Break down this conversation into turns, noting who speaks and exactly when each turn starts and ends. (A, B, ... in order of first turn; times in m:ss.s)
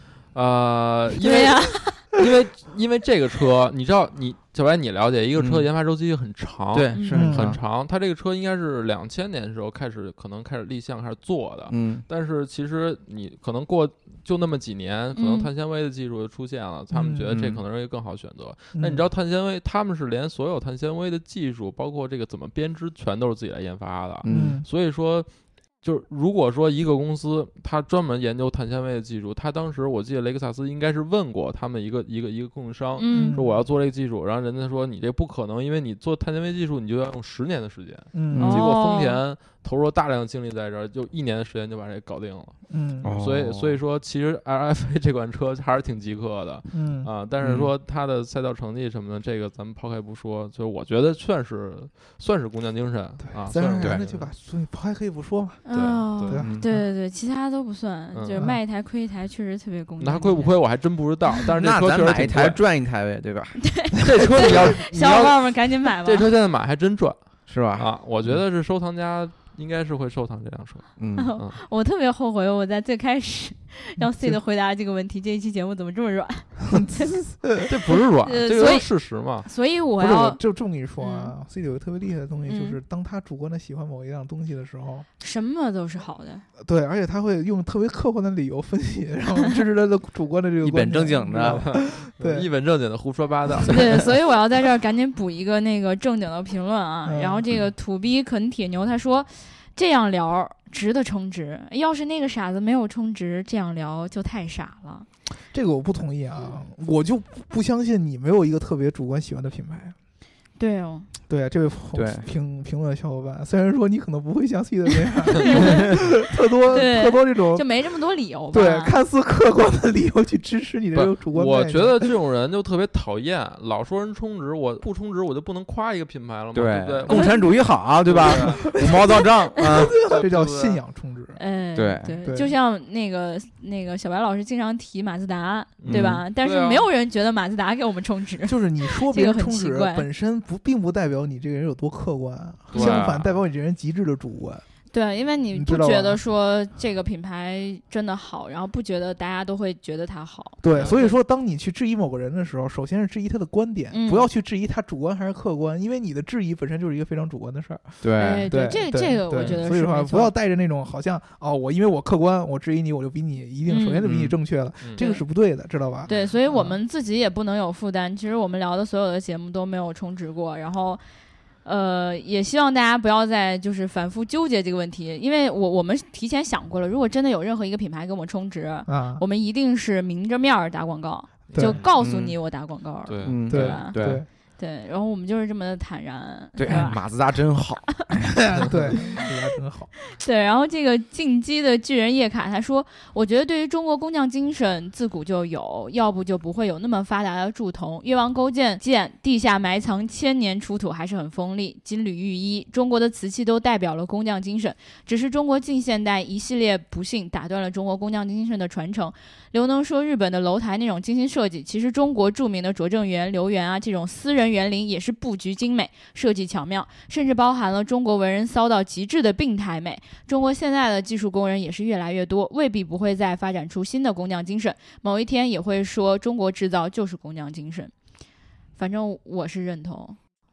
0:00.3-0:25.3 A
0:01.2-0:02.0 B
0:05.4-0:05.7 C
0:06.7-0:07.6 C
0:07.1-0:07.6 D
0:11.7-0:12.0 C
0:15.2-0:15.5 B
0:16.9-0:17.3 D
0:17.3-0:17.6 C
0:18.8-0:19.0 D
0:24.2-0:24.6 C
0:24.3-0:24.7 D
0:25.8-0:54.3 A
0:33.0-0:33.4 B
0:33.1-0:33.6 D
0:38.1-0:38.6 D
0:38.3-0:38.6 C
0:38.4-0:39.2 B
0:42.7-0:43.2 D
0:43.0-0:43.8 C
0:46.7-0:47.1 D
0:47.4-0:47.7 C
0:53.3-0:55.7 D
0:55.6-1:00.6 B
0:55.7-0:56.4 A
0:56.3-0:56.9 D
0:58.1-0:58.4 A
0:58.4-0:58.6 D
1:00.0-1:02.6 A
1:01.6-1:03.7 C
1:03.6-1:06.3 B
1:04.0-1:11.6 A
1:07.5-1:08.4 C
1:11.0-1:11.3 C
1:11.2-1:17.1 B
1:14.0-1:14.4 D
1:16.7-1:17.7 D
1:17.7-1:19.5 A
1:18.2-1:20.4 B
1:20.0-1:25.1 D
1:21.0-1:21.3 B
1:22.5-1:22.8 B
1:25.2-1:26.4 B
1:26.6-1:32.5 D
1:30.6-1:31.6 C
1:31.3-1:34.1 A
1:33.7-1:45.1 B
1:37.0-1:37.5 D
1:45.5-1:50.0 D
1:50.6-1:51.1 B
1:51.3-1:57.7 D
1:51.9-1:52.3 C
1:55.3-1:56.2 B
1:56.7-1:59.0 B
1:58.5-2:02.1 D
2:01.3-2:08.7 A
2:06.5-2:10.1 C
2:07.1-2:07.5 B
2:08.3-2:11.4 D
2:09.1-2:09.8 B
2:10.0-2:10.8 A
2:11.4-2:20.1 B
2:11.8-2:12.2 C
2:12.2-2:12.5 D
2:15.8-2:16.9 A
2:15.9-2:16.2 C
2:18.5-2:24.6 D
2:22.7-2:23.4 A
2:22.8-2:23.0 B
2:24.9-2:31.2 B
2:25.5-2:26.2 D
2:30.6-2:46.8 D
2:30.7-2:31.0 A
2:33.9-2:34.3 B
2:38.0-2:38.5 C
2:38.2-2:40.3 B
2:43.7-2:44.1 B
2:44.0-2:44.4 C
2:45.0-2:45.2 B
2:46.1-2:46.4 A
2:46.1-2:51.0 B
2:51.6-3:04.0 B
2:58.9-2:59.2 D
3:01.5-3:01.9 A
3:01.5-3:01.9 D
3:02.0-3:02.4 C
3:03.1-3:03.8 A
3:03.2-3:04.2 C
3:03.5-3:04.3 D
3:04.6-3:07.0 B
3:06.6-3:07.8 C
3:06.7-3:06.9 D
3:08.2-3:09.9 D
3:08.9-3:09.3 B
3:10.1-3:47.9 B
3:48.8-3:50.2 B